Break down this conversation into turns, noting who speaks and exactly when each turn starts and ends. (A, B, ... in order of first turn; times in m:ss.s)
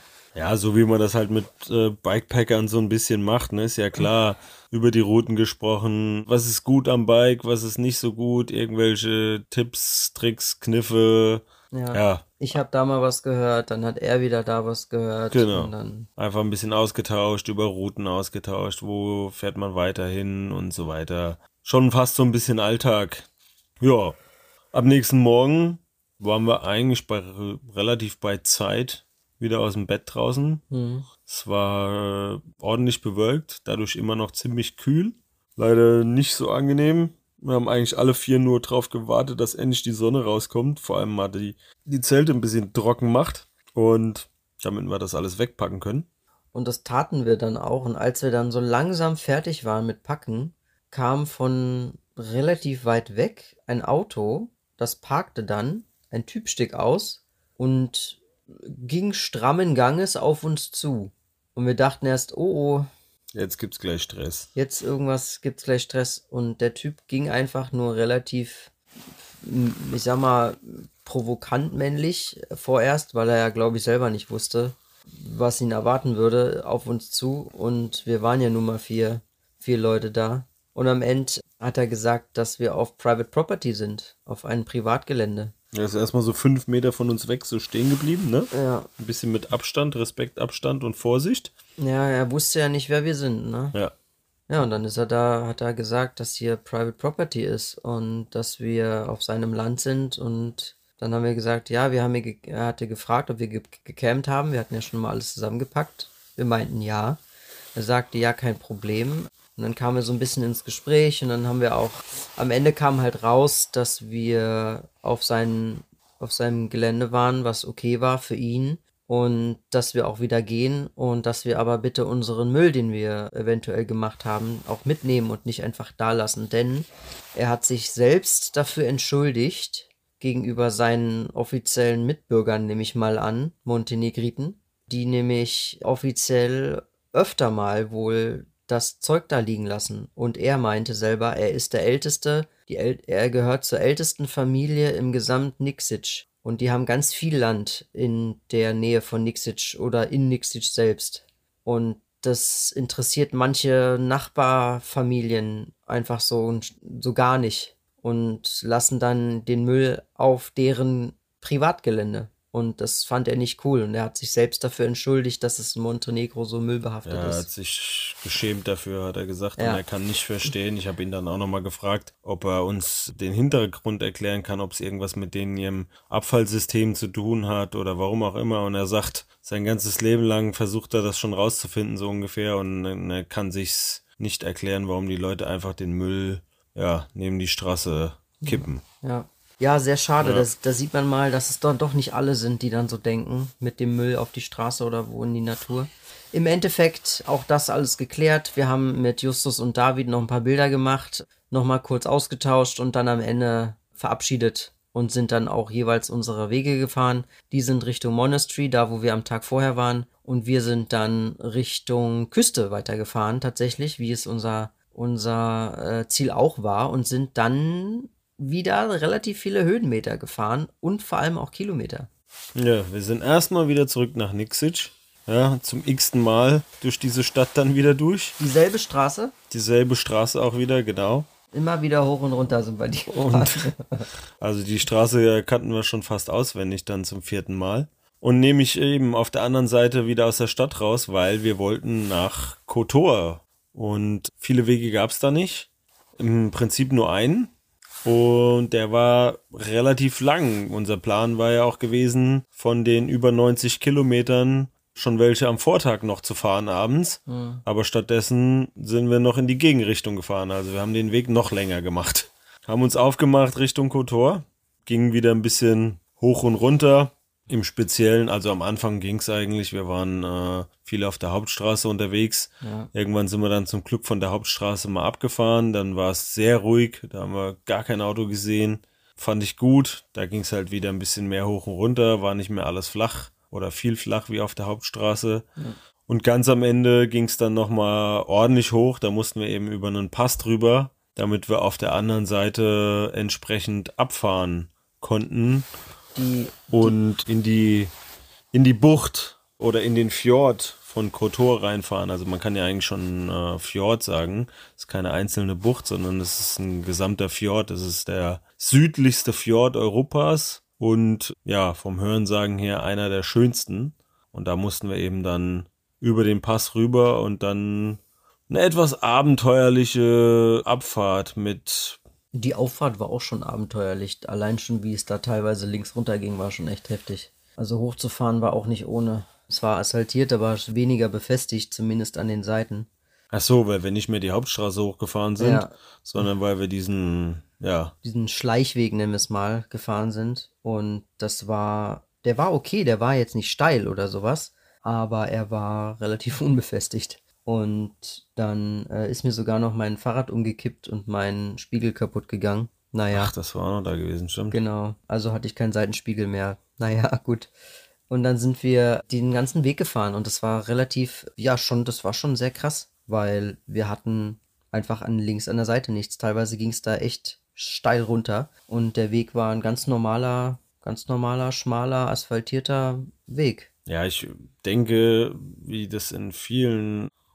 0:00.4-0:12.3 A
0:11.7-0:16.1 B
0:15.3-0:23.3 A
0:23.8-0:24.2 A
0:24.7-0:30.6 A
0:30.7-0:31.1 B
0:31.2-0:46.1 A
0:46.5-1:02.9 B
1:03.3-1:04.5 A
1:04.6-1:08.7 B
1:09.4-1:25.5 B
1:25.7-1:31.5 A
1:28.5-1:28.9 B
1:31.8-1:33.8 B
1:34.5-1:47.2 B
1:47.8-2:47.5 B
2:47.1-3:08.8 A
2:49.6-2:49.8 B
3:08.4-3:42.1 B
3:10.2-3:10.5 A
3:42.6-3:48.4 A
3:48.4-3:49.3 B
3:49.5-3:51.3 A
3:51.5-3:54.1 B
3:53.1-3:53.7 A
3:54.4-4:07.5 A
4:08.0-4:45.5 A
4:17.3-4:17.6 B
4:32.6-4:32.9 B
4:46.1-4:55.7 A
4:56.2-4:57.0 B
4:56.7-4:57.9 A
4:58.5-5:22.0 A
5:22.3-5:32.9 B
5:33.3-5:38.0 A
5:35.4-5:35.7 B
5:38.0-5:53.3 B
5:53.1-5:54.6 A
5:54.5-5:57.5 B
5:58.1-6:13.7 B
6:13.9-6:17.1 A